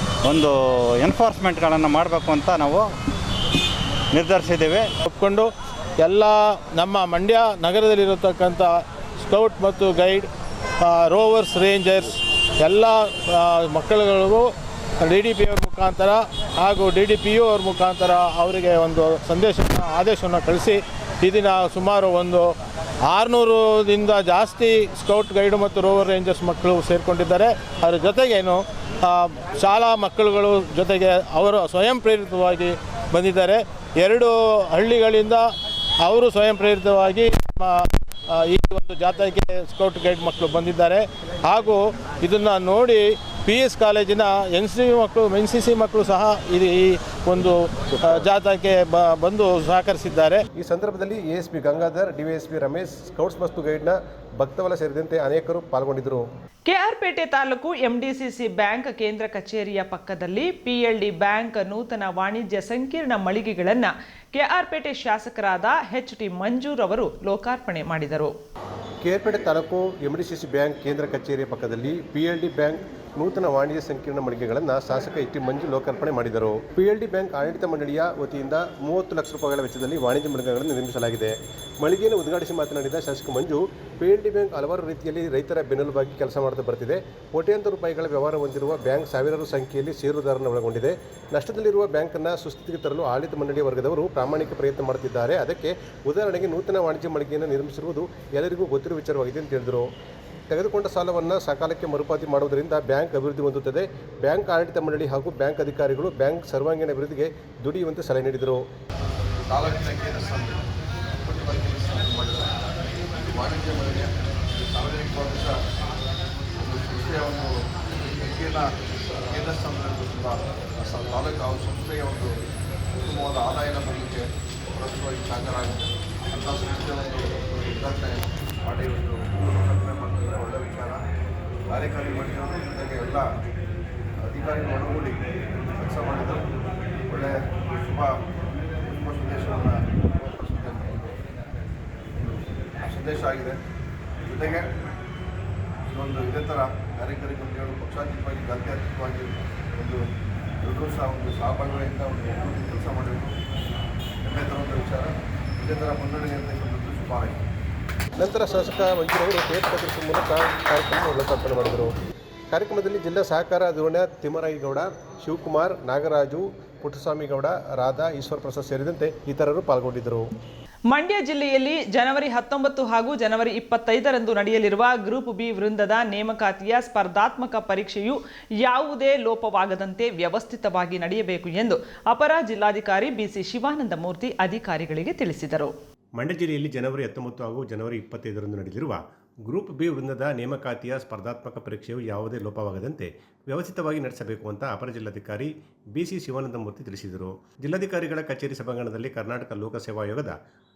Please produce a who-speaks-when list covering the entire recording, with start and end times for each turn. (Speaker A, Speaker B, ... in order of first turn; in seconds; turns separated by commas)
Speaker A: 0.3-2.9, Speaker A: 4.1-4.9, Speaker B: 5.0-5.5, Speaker B: 6.0-10.3, Speaker B: 10.8-14.5, Speaker B: 15.0-22.5, Speaker B: 23.1-35.5, Speaker B: 36.0-50.4, Speaker C: 50.5-56.3, Speaker D: 56.7-68.3, Speaker C: 69.0-99.9, Speaker C: 100.5-108.7, Speaker E: 109.5-110.7, Speaker E: 111.2-112.6, Speaker E: 113.1-115.6, Speaker E: 116.6-118.7, Speaker E: 119.3-122.4, Speaker E: 123.0-131.0, Speaker E: 131.7-133.3, Speaker E: 134.2-135.2, Speaker E: 135.8-136.5, Speaker E: 137.1-138.1, Speaker E: 138.8-141.2, Speaker E: 142.2-143.6, Speaker E: 144.2-144.7, Speaker E: 145.9-150.0, Speaker E: 150.6-153.3, Speaker E: 154.2-157.4, Speaker C: 158.2-161.9, Speaker C: 162.5-170.3, Speaker D: 170.9-185.7, Speaker C: 186.2-200.4